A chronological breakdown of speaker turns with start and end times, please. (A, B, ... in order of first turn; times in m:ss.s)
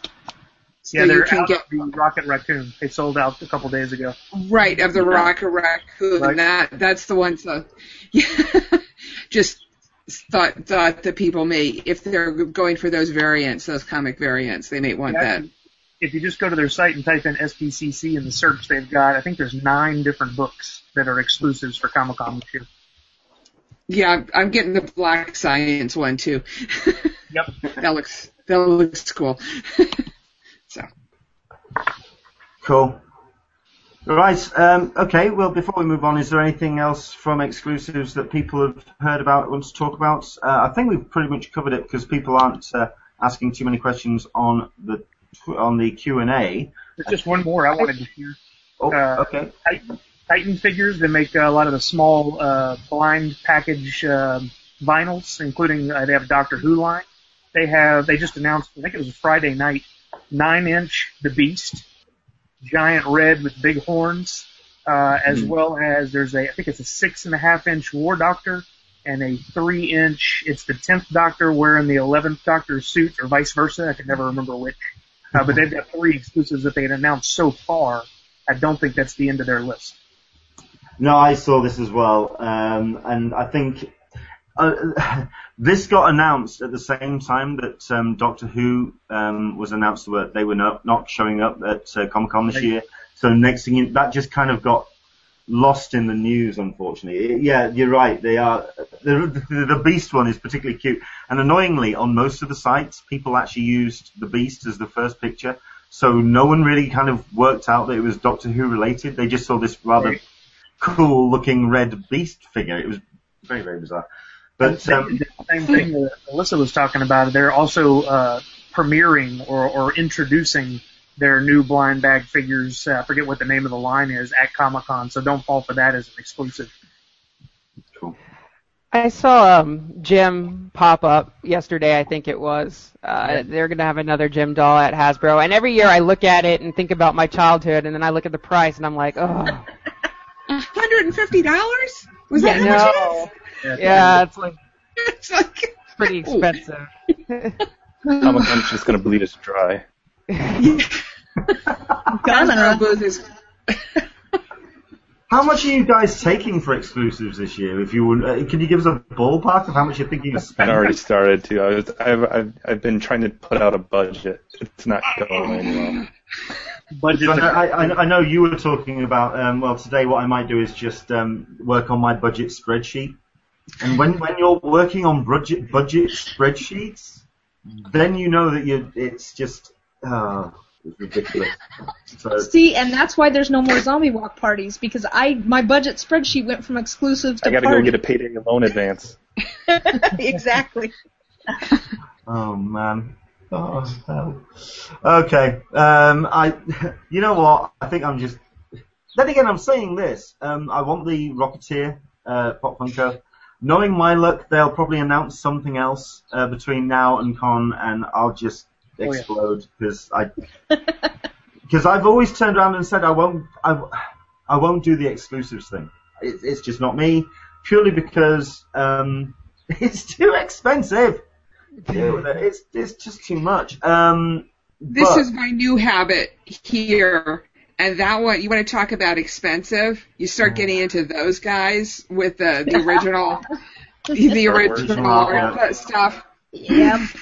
0:00.8-0:04.2 A
0:00.9-0:01.7 B
0:04.3-0:15.4 B
0:05.0-0:05.3 A
0:15.1-0:15.5 A
0:16.0-0:22.7 A
0:23.9-0:27.1 B
0:27.6-0:30.0 B
0:32.6-0:33.0 C
0:34.0-0:47.2 C
0:47.0-0:48.4 A
0:48.8-0:49.5 C
0:48.9-1:01.8 A
1:02.6-1:14.8 A
1:15.3-1:20.0 A
1:21.0-1:23.9 C
1:24.6-1:34.9 C
1:35.5-1:50.2 C
1:50.8-1:54.0 C
1:54.6-1:55.2 C
1:54.6-2:06.7 A
2:08.9-2:19.6 D
2:20.5-2:23.3 B
2:22.4-2:23.2 E
2:22.4-2:24.6 D
2:23.6-2:24.2 A
2:25.0-2:26.6 B
2:26.0-2:27.6 D
2:28.1-2:28.4 E
2:28.2-2:29.8 F
2:30.4-2:30.6 D
2:32.1-2:32.8 E
2:32.2-2:34.0 B
2:35.3-2:40.9 C
2:40.6-2:46.0 F
2:47.0-2:47.7 A
2:47.1-2:53.2 C
2:53.8-3:01.6 C
3:02.1-3:02.5 C
3:02.4-3:08.0 E
3:07.4-3:09.2 F
3:09.7-3:10.9 E
3:12.3-3:18.4 C
3:19.1-3:30.3 C
3:29.0-3:29.3 A
3:31.7-3:41.2 C
3:41.9-3:45.3 C
3:44.9-3:53.4 B
3:54.1-3:56.2 B
3:54.4-3:55.7 C
3:54.5-3:55.0 F
3:56.5-3:57.1 E